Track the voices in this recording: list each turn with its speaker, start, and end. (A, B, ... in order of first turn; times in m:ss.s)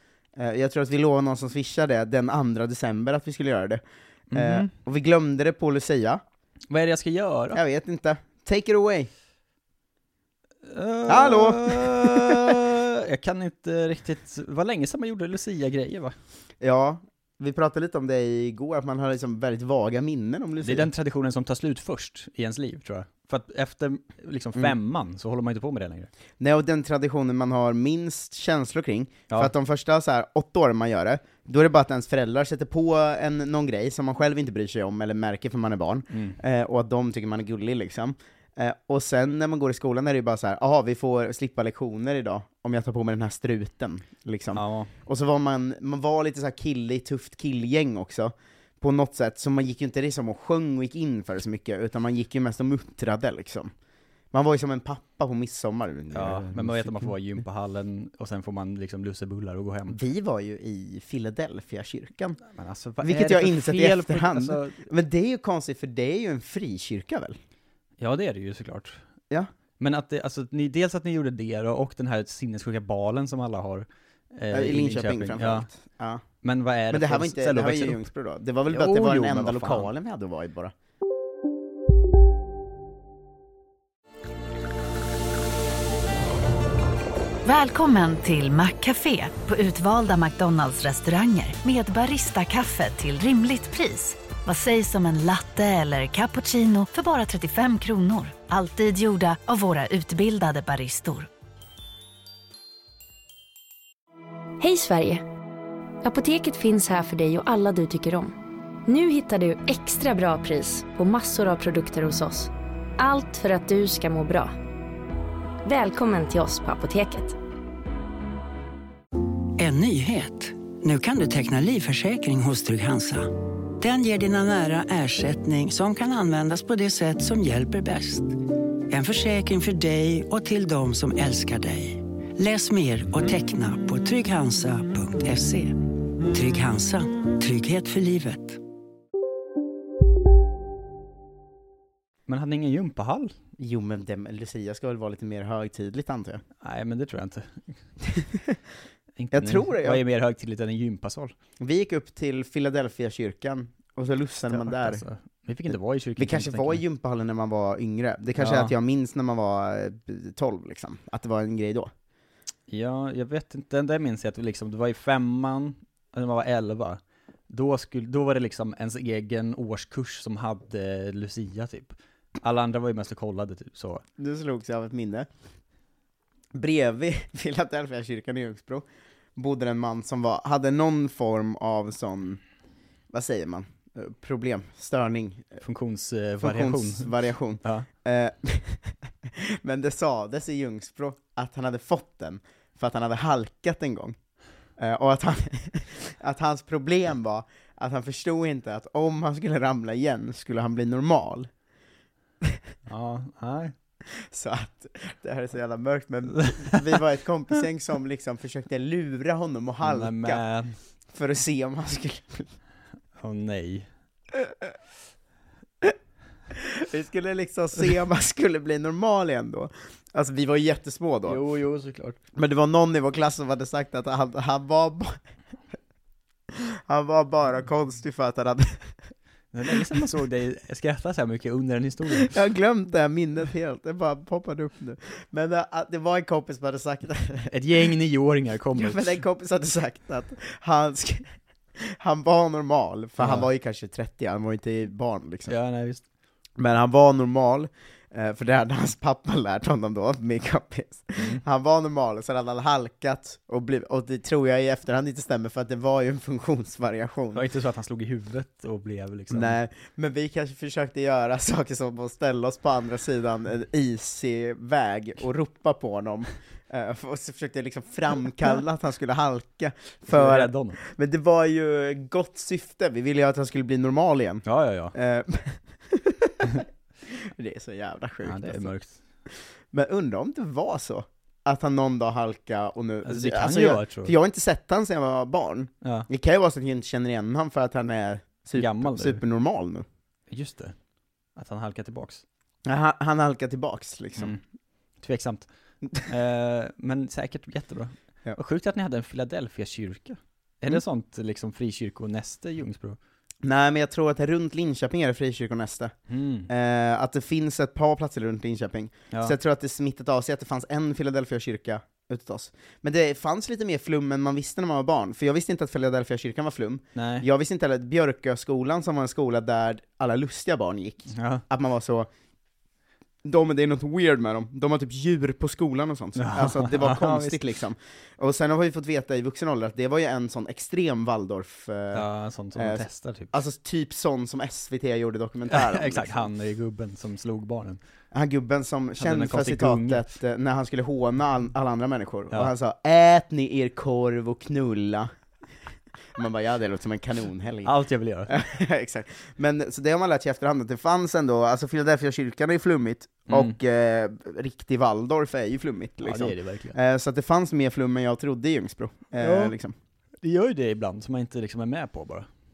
0:00.4-0:03.8 A
0:04.3-0:04.7 B
0:04.3-0:06.2 A
0:06.7-0:07.6 B
0:07.5-0:09.1 A
0:10.6-0:16.2 B
0:11.1-0:12.5 A
0:16.6-0:20.9 A
0:20.6-0:26.1 B
0:26.4-0:53.7 A
0:36.1-0:36.4 B
0:44.5-0:44.9 B
0:54.3-0:57.1 A
0:56.1-1:00.0 B
0:59.9-1:02.4 A
1:02.5-1:04.8 B
1:03.0-1:07.4 A
1:08.0-1:09.0 B
1:09.8-1:15.7 B
1:14.5-1:16.2 A
1:16.4-1:18.0 B
1:16.9-1:20.7 A
1:18.7-1:19.9 B
1:27.4-1:41.3 C
1:44.6-1:45.2 D
1:46.0-1:48.4 D
1:48.9-1:54.5 D
1:55.6-1:57.4 D
1:59.6-2:18.6 E
2:22.3-2:23.3 B
2:23.6-2:26.4 A
2:26.6-2:27.6 B
2:29.2-2:31.3 B
2:29.3-2:30.0 A
2:31.6-2:35.0 A
2:34.5-2:36.8 B
2:36.2-2:41.9 A
2:38.4-2:38.7 B
2:42.7-2:47.0 B
2:47.5-2:54.0 B
2:54.2-2:55.3 A
2:56.5-2:58.8 A
2:59.4-3:02.4 A
3:03.1-3:05.6 A
3:05.6-3:07.9 B
3:06.4-3:14.2 A
3:14.8-3:21.5 A
3:22.9-3:23.7 B
3:24.3-3:30.4 A
3:29.8-3:30.8 B
3:31.1-3:32.5 A
3:33.2-3:33.9 B
3:36.5-3:41.4 A
3:41.2-3:42.2 B
3:42.4-3:45.2 A
3:46.5-3:48.9 A
3:49.5-3:52.4 B
3:52.1-3:57.5 A
3:57.5-3:59.2 B
3:58.8-4:05.5 A
4:03.2-4:03.5 B
4:05.5-4:06.0 B
4:06.6-4:17.4 A
4:11.2-4:11.4 B
4:17.3-4:19.6 B
4:19.3-4:38.7 A
4:30.1-4:30.8 B
4:34.4-4:34.9 B
4:38.2-4:39.0 B
4:39.3-4:49.8 A
4:43.0-4:44.1 B
4:48.6-4:49.2 B
4:50.3-4:50.8 B
4:51.4-4:52.2 B
4:52.6-4:54.4 A
4:55.0-4:55.5 B
4:56.0-5:03.0 B
5:03.4-5:05.9 A
5:06.1-5:06.5 B
5:06.5-5:22.1 A
5:17.0-5:17.2 B
5:21.1-5:21.4 B
5:23.2-5:36.2 A
5:26.2-5:27.4 B
5:31.9-5:33.3 B
5:35.5-5:37.8 B
5:38.1-5:45.1 A
5:39.0-5:40.0 B
5:46.2-5:47.7 A
5:47.6-5:48.3 B
5:48.3-5:59.7 A
5:53.3-5:53.5 B
5:56.0-5:56.8 B
5:59.2-5:59.5 B
6:00.2-6:02.3 B